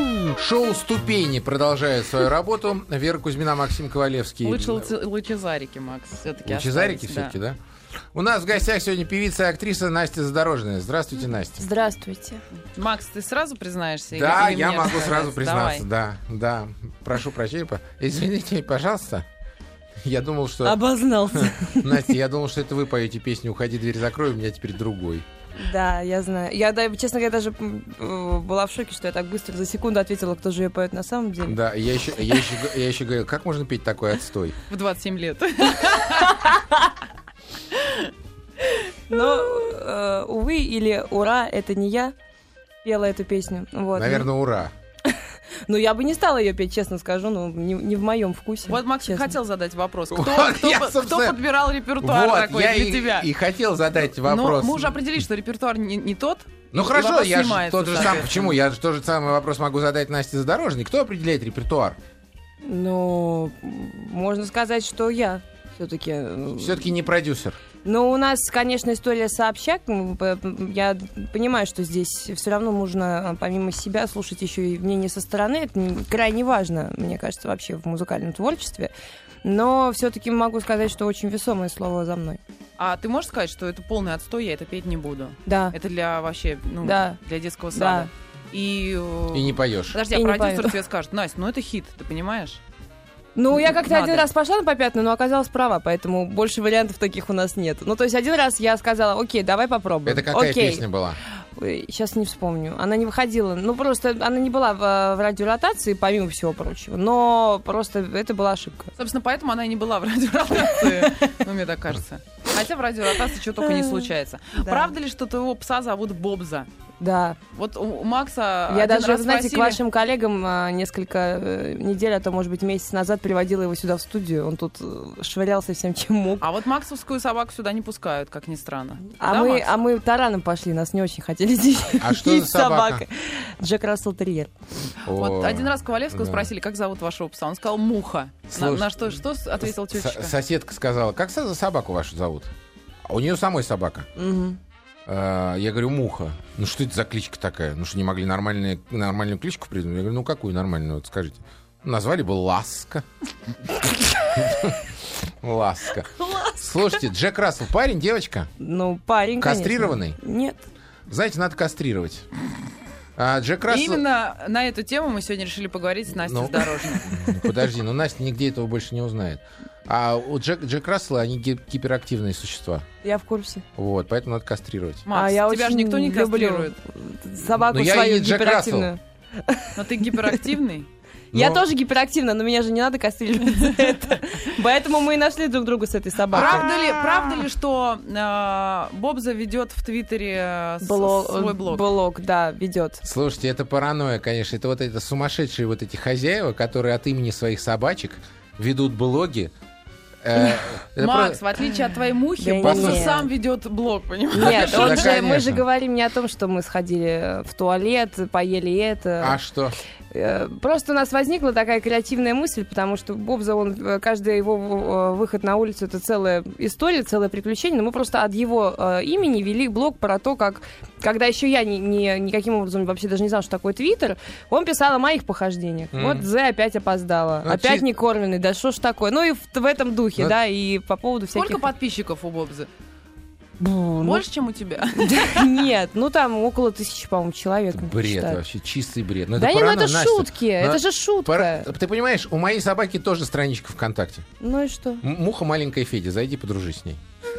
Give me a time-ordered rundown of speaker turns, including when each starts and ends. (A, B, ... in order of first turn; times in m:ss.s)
0:00.3-0:04.9 A
0:04.4-0:07.4 B
0:06.5-0:07.6 A
0:08.1-0:11.7 A
0:11.6-0:12.4 C
0:12.7-0:15.9 B
0:14.1-0:19.2 A
0:20.0-0:20.8 A
0:20.6-0:22.1 C
0:21.3-0:25.2 A
0:25.6-0:31.6 C
0:31.4-0:34.6 A
0:34.7-0:36.6 B
0:37.8-0:38.1 B
0:39.1-0:42.1 C
0:42.8-0:44.3 C
0:44.0-0:44.7 A
0:45.1-0:49.4 C
0:48.7-0:53.3 B
0:50.1-0:51.4 A
0:52.0-0:55.0 A
0:54.2-0:58.6 B
0:56.7-1:02.0 A
1:02.6-1:06.9 C
1:06.6-1:07.6 A
1:07.8-1:18.9 C
1:19.4-1:22.4 C
1:22.8-1:32.6 B
1:25.5-1:25.8 C
1:26.8-1:27.2 C
1:27.7-1:28.1 C
1:29.3-1:30.0 A
1:30.1-1:30.8 C
1:33.4-1:40.9 C
1:33.6-1:34.3 B
1:40.1-1:41.2 A
1:41.6-1:48.9 C
1:49.0-1:56.7 B
1:53.6-1:54.1 C
1:54.6-1:54.9 C
1:57.0-1:57.4 C
1:57.5-1:59.8 B
1:58.7-2:06.4 C
2:06.4-2:09.8 B
2:09.2-2:14.5 C
2:12.0-2:13.0 A
2:15.0-2:20.4 B
2:15.0-2:16.5 A
2:18.5-2:18.9 A
2:19.6-2:22.5 A
2:23.0-2:24.1 A
2:24.2-2:24.6 C
2:25.1-2:33.0 A
2:34.3-2:34.9 A
2:35.4-2:38.5 A
2:36.2-2:36.5 C
2:38.6-2:40.6 C
2:39.4-2:40.2 A
2:41.1-2:42.2 A
2:43.2-2:44.0 A
2:43.7-2:47.1 B
2:46.2-2:52.9 A
2:53.0-2:53.6 C
2:53.8-2:55.0 A
2:55.1-2:56.8 B
2:55.1-3:00.4 C
2:57.5-2:58.9 A
2:59.8-3:00.9 B
3:01.3-3:01.6 A
3:01.3-3:06.6 C
3:06.3-3:07.5 A
3:06.3-3:11.8 B
3:10.8-3:13.0 C
3:13.0-3:19.5 A
3:20.2-3:21.4 A
3:21.0-3:25.2 B
3:22.4-3:23.3 C
3:22.6-3:23.2 A
3:24.3-3:29.4 C
3:24.4-3:25.6 A
3:29.2-3:29.8 A
3:30.1-3:51.6 C
3:45.9-3:46.3 A
3:47.4-3:47.9 A
3:51.3-3:52.7 B
3:53.6-3:54.2 C
3:54.0-3:55.6 B
3:55.0-3:58.4 C
3:57.8-4:04.3 A
3:59.4-4:01.7 C
4:04.4-4:05.0 C
4:05.0-4:07.0 A